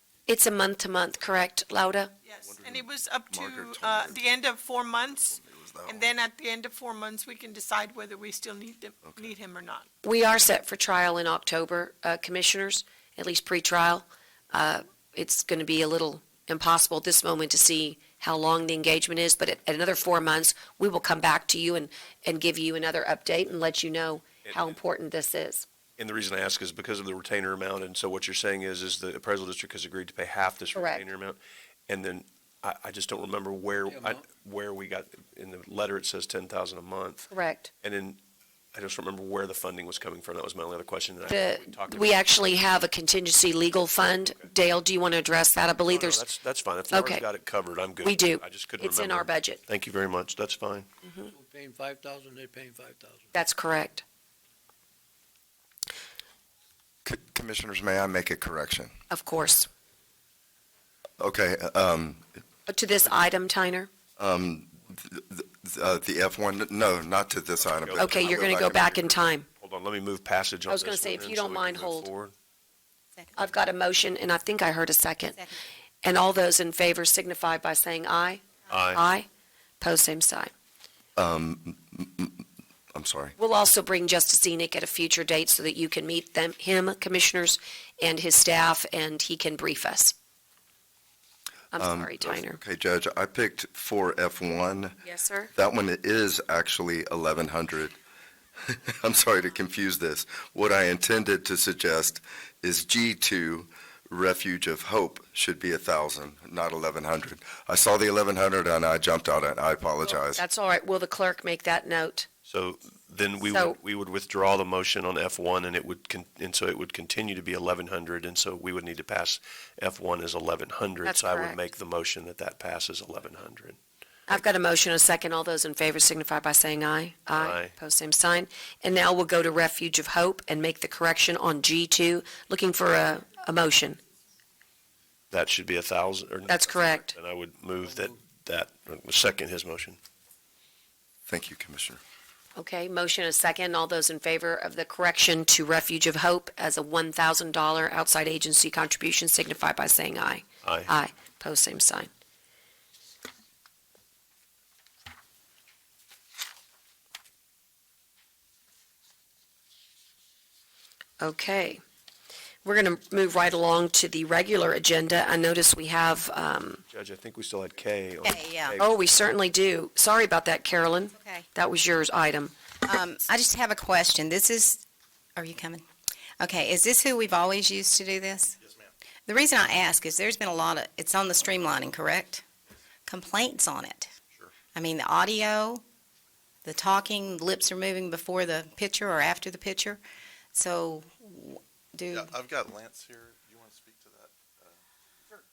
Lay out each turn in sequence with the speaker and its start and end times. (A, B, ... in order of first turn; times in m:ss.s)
0:00.3-0:02.1 A
0:02.2-0:09.9 B
0:02.4-0:04.2 C
0:05.3-0:06.0 C
0:10.0-0:25.7 A
0:24.4-0:24.8 D
0:26.0-0:37.3 D
0:30.7-0:31.0 A
0:33.9-0:34.2 E
0:37.3-0:37.7 A
0:37.8-0:38.2 D
0:38.7-0:42.2 D
0:41.3-0:46.2 A
0:45.9-0:50.9 D
0:46.9-0:47.2 A
0:48.0-0:49.6 A
0:51.3-0:53.3 E
0:53.3-0:54.0 A
0:57.0-0:58.9 C
0:59.1-0:59.7 A
1:01.2-1:02.3 C
1:02.7-1:03.9 A
1:04.2-1:08.9 C
1:07.6-1:12.3 D
1:08.0-1:09.5 A
1:10.7-1:12.1 A
1:13.4-1:15.4 A
1:16.0-1:19.3 A
1:18.7-1:19.0 D
1:19.8-1:20.5 A
1:21.2-1:23.3 C
1:23.4-1:30.1 A
1:31.7-1:32.6 A
1:31.8-1:35.0 C
1:35.0-1:35.5 A
1:35.5-1:38.0 C
1:38.6-1:50.4 C
1:50.1-1:52.3 A
1:52.5-2:03.8 D
1:53.5-1:53.8 A
2:01.0-2:01.6 A
2:04.3-2:14.0 A
2:07.3-2:07.7 D
2:15.3-2:20.0 D
2:16.5-2:17.1 A
2:21.3-2:22.0 C
2:22.6-2:32.1 A
2:30.6-2:30.9 D
2:41.2-2:41.8 A
2:42.6-2:46.8 A
2:46.9-2:48.9 D
2:48.2-2:48.8 F
2:48.8-2:52.5 A
2:51.2-2:51.4 F
2:52.8-2:54.8 F
2:55.4-2:55.8 F
2:56.4-2:58.6 F
2:59.2-3:02.4 F
3:03.0-3:04.1 F
3:04.7-3:05.8 F
3:06.6-3:10.0 F
3:10.5-3:12.3 F
3:12.1-3:14.8 G